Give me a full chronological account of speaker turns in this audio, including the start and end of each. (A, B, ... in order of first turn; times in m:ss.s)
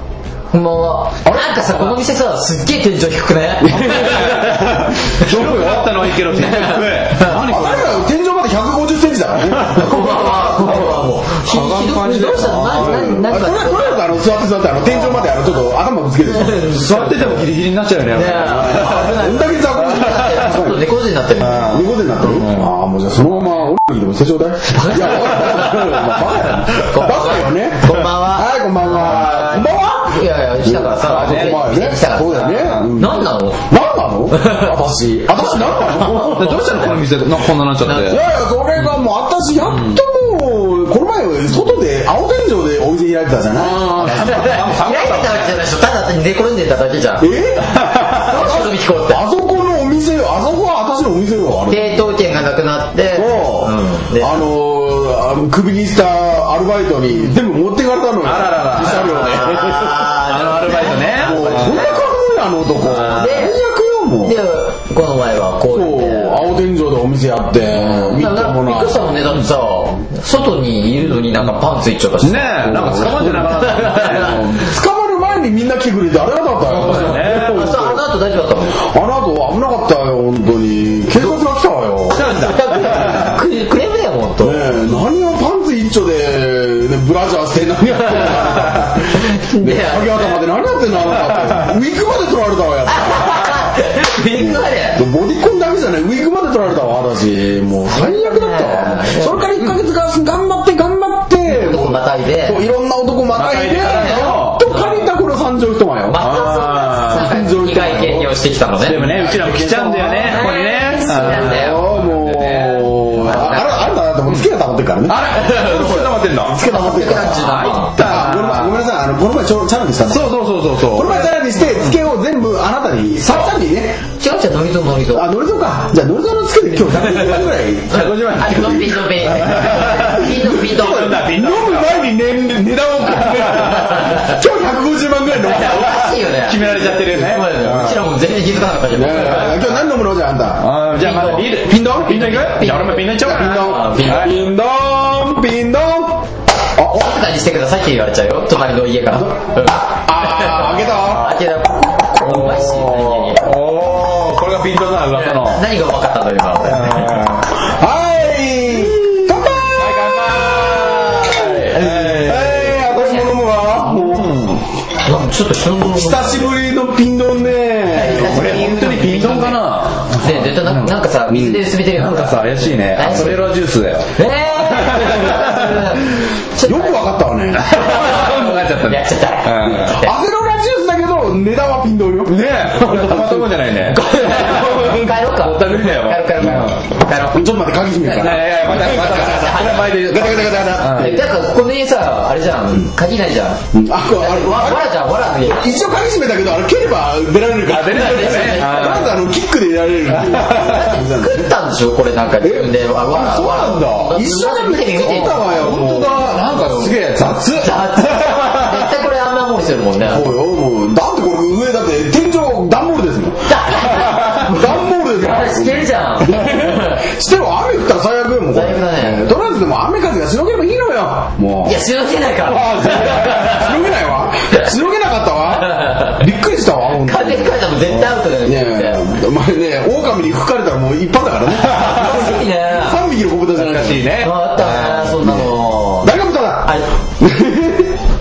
0:00.5-0:05.3 A
0:01.2-0:01.7 B
0:03.6-0:06.0 B
0:03.7-0:08.1 C
0:06.3-0:07.4 A
0:07.2-0:10.9 B
0:09.5-0:13.0 C
0:09.7-0:14.0 A
0:12.3-0:16.7 B
0:16.2-0:17.4 A
0:16.6-0:19.1 C
0:18.1-0:21.9 A
0:18.5-0:20.9 B
0:21.4-0:22.7 C
0:21.4-0:36.6 B
0:24.7-0:33.7 A
0:31.0-0:31.6 C
0:32.5-0:32.9 C
0:34.3-0:34.7 A
0:35.2-0:37.0 A
0:36.0-0:38.2 C
0:37.8-0:38.2 A
0:38.0-0:44.0 B
0:39.6-0:40.0 C
0:43.5-0:45.6 C
0:43.9-0:47.3 A
0:47.2-0:52.1 B
0:48.1-0:49.2 A
0:51.7-0:54.4 A
0:53.1-1:00.1 B
0:58.2-1:02.0 C
0:58.9-1:02.0 A
1:01.1-1:04.4 B
1:02.8-1:03.4 C
1:03.1-1:03.6 A
1:04.2-1:06.5 A
1:05.7-1:09.2 B
1:07.8-1:14.4 A
1:12.2-1:14.7 C
1:12.6-1:18.0 B
1:16.7-1:17.8 C
1:16.8-1:18.8 A
1:18.7-1:22.3 B
1:22.1-1:23.4 C
1:22.2-1:24.7 A
1:24.4-1:33.8 B
1:28.1-1:30.4 A
1:31.3-1:31.6 C
1:32.9-1:35.0 A
1:34.3-1:48.3 B
1:37.9-1:39.5 A
1:41.4-1:42.6 A
1:43.3-1:44.9 C
1:43.9-1:44.8 A
1:46.1-1:49.1 A
1:46.2-1:47.4 C
1:48.8-1:53.6 C
1:48.9-1:55.2 B
1:50.2-1:51.9 A
1:53.2-1:53.9 A
1:55.1-1:58.8 C
1:55.2-1:58.0 A
1:56.3-2:04.0 B
2:00.1-2:01.9 C
2:03.2-2:03.5 A
2:04.2-2:05.3 A
2:05.1-2:16.2 B
2:07.9-2:12.0 C
2:07.9-2:11.2 A
2:13.1-2:14.1 C
2:13.8-2:14.4 A
2:15.4-2:19.6 A
2:15.6-2:18.0 C
2:18.9-2:20.7 B
2:20.6-2:24.4 C
2:21.0-2:24.4 A
2:21.6-2:22.3 B
2:23.2-2:27.1 B
2:26.9-2:33.5 A
2:29.1-2:31.4 B
2:32.2-2:35.6 C
2:35.1-2:37.2 A
2:36.6-2:37.5 C
2:37.6-2:44.4 B
2:39.8-2:43.2 C
2:41.2-2:42.0 A
2:43.0-2:43.2 A
2:43.8-2:44.6 C
2:45.0-2:46.5 A
2:45.8-2:48.8 B
2:47.9-2:53.5 A
2:48.0-2:56.0 C
2:51.3-2:51.6 B
2:54.1-3:00.1 A
2:56.6-2:57.9 B
2:57.6-3:00.0 C
2:59.6-3:03.6 B
3:02.2-3:06.8 C
3:03.9-3:07.4 A
3:07.2-3:11.2 B
3:08.0-3:13.6 A
3:08.1-3:11.2 C
3:13.7-3:21.5 B
3:14.1-3:15.8 A
3:17.7-3:19.2 C
3:17.9-3:19.1 A
3:20.1-3:20.9 C
3:20.6-3:27.0 A
3:22.4-3:26.4 B
3:23.5-3:24.0 C
3:25.0-3:28.9 C
3:27.5-3:30.3 A
3:30.0-3:41.8 B
3:33.5-3:37.1 A
3:33.9-3:34.5 C
3:38.5-3:39.3 A
3:41.6-3:43.7 A
3:42.5-3:54.1 B
3:42.8-3:43.6 C
3:45.6-3:46.2 A
3:46.9-3:49.0 A
3:51.6-3:52.4 C
3:51.8-3:53.0 A
3:53.5-3:55.2 C
3:54.2-3:56.9 A
3:55.2-3:58.0 B